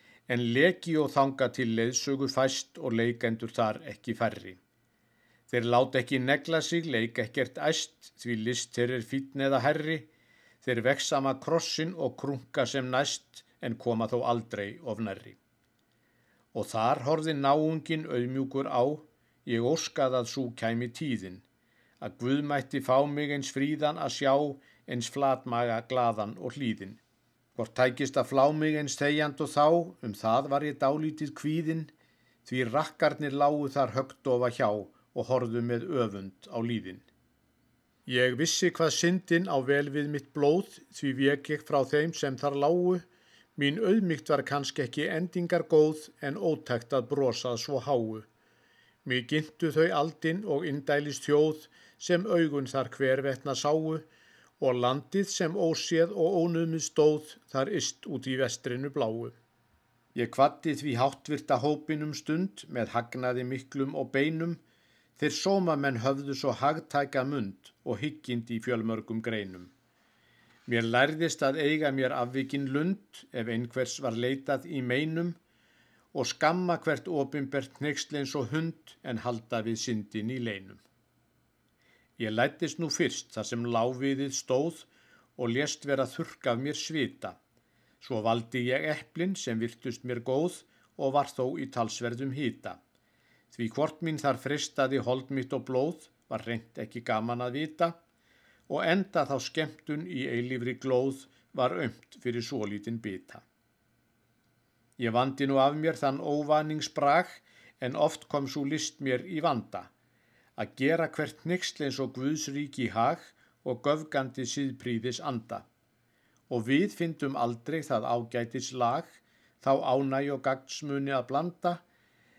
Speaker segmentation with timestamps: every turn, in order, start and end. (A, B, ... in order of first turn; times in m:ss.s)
0:00.3-0:04.6 A
0:05.5-0:10.1 A
0:10.6-0:15.4 A
0:16.5-0:21.4 A
0:22.0-0:27.0 A
0:27.6-0:31.9 A
0:32.4-0:37.0 A
0:38.1-0:43.0 A
0:43.6-0:48.3 A
0:49.0-0:54.0 A
0:54.6-0:59.3 A
1:00.1-1:04.6 A
1:05.2-1:09.7 A
1:10.7-1:15.4 A
1:16.1-1:20.8 A
1:22.2-1:27.4 A
1:28.0-1:32.8 A
1:33.5-1:37.9 A
1:38.7-1:43.4 A
1:45.0-1:49.9 A
1:50.6-1:55.6 A
1:56.5-2:01.8 A